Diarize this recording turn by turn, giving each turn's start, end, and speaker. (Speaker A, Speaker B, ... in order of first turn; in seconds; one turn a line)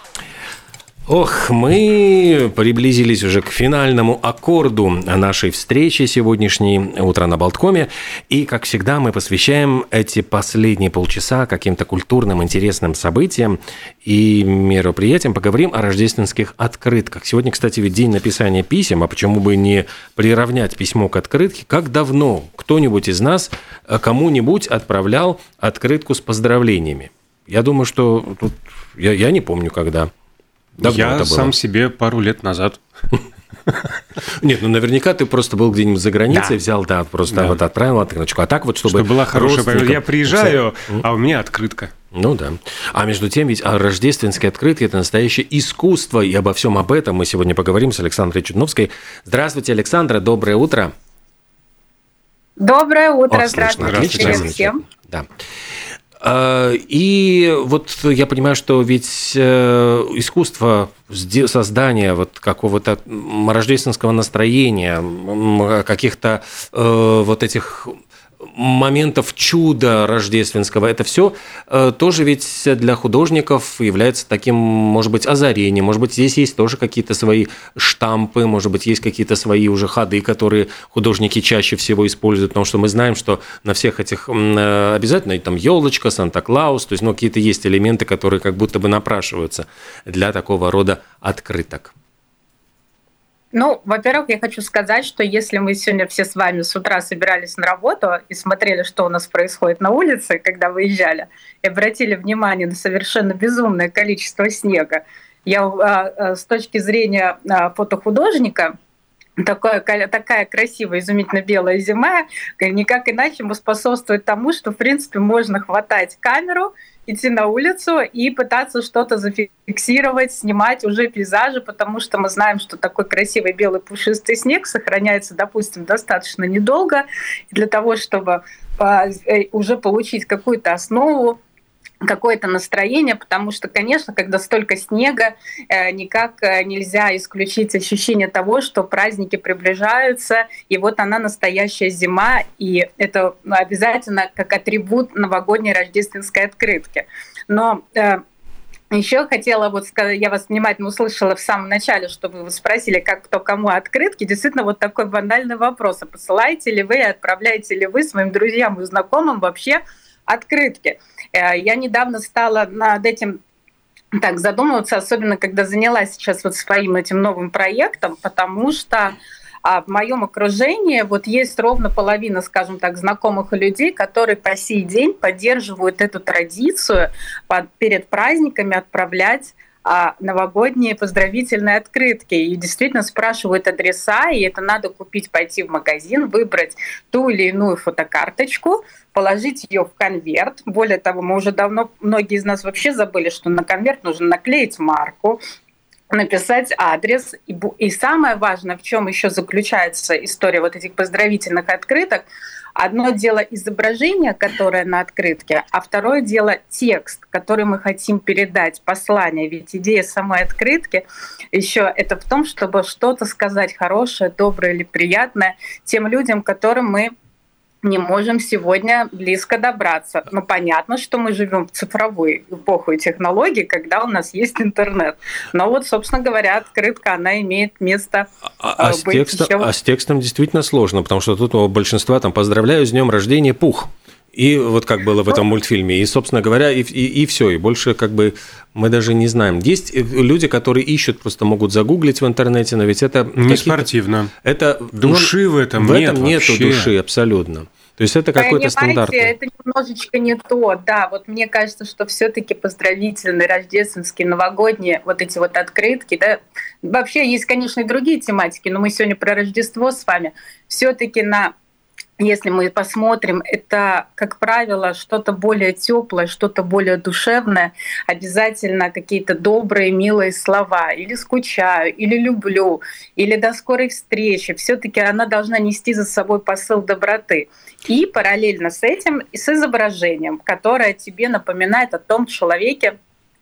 Speaker A: 1.1-30.1
Speaker B: 30.8-32.8
Speaker A: 30.8-31.5
Speaker A: 34.2-41.0
Speaker B: 37.3-37.6
Speaker B: 38.9-41.9
Speaker A: 42.1-50.9
Speaker C: 52.6-54.8
Speaker A: 53.3-55.2
Speaker B: 53.8-54.5
Speaker A: 56.2-91.9
Speaker C: 93.5-108.7
Speaker C: 109.4-131.4
Speaker C: 132.0-148.2
Speaker C: 148.9-163.4
Speaker C: 164.2-195.4
Speaker C: 196.1-217.1
Speaker C: 217.8-229.7
Speaker A: 228.6-243.9
Speaker B: 243.4-244.3
Speaker A: 244.4-249.3
Speaker B: 245.0-246.9
Speaker C: 248.4-261.5
Speaker C: 262.2-282.9